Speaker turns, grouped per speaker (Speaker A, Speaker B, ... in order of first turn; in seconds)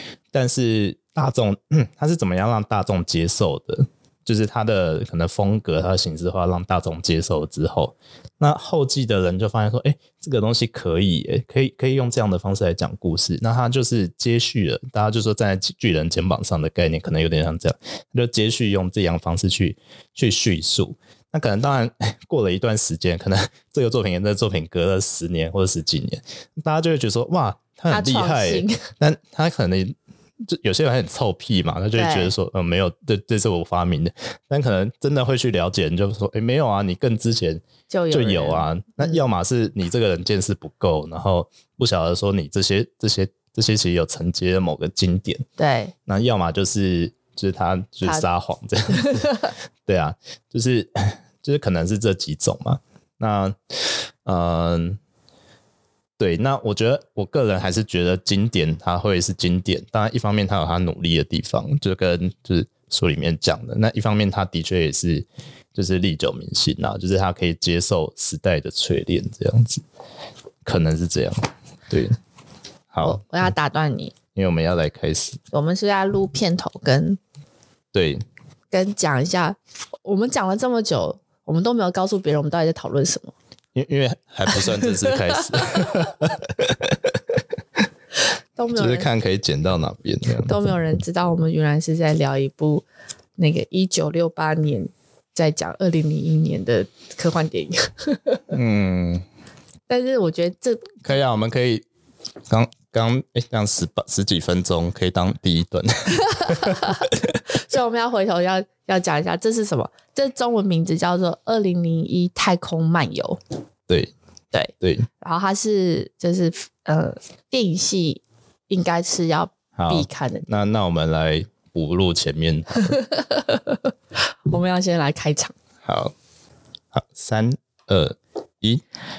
Speaker A: 0.3-45.5, 46.1-55.0, 56.2-69.8, 70.7-72.2, 72.9-73.5, 74.3-75.4, 77.9-78.2, 83.8-87.2, 88.8-90.6, 98.5-99.2, 101.0-101.8, 102.5-107.3, 113.9-114.1, 114.8-115.1, 119.8-123.0, 125.8-126.1, 126.9-128.8
Speaker B: 27.9-28.8, 31.9-32.3, 37.9-39.2, 45.6-45.9, 48.9-49.3, 73.0-74.2, 75.5-77.2, 78.7-83.3, 84.6-84.9, 88.6-89.1, 90.4-92.8, 93.4-98.4, 99.9-101.0, 106.6-113.4, 114.5-120.5, 122.8-125.5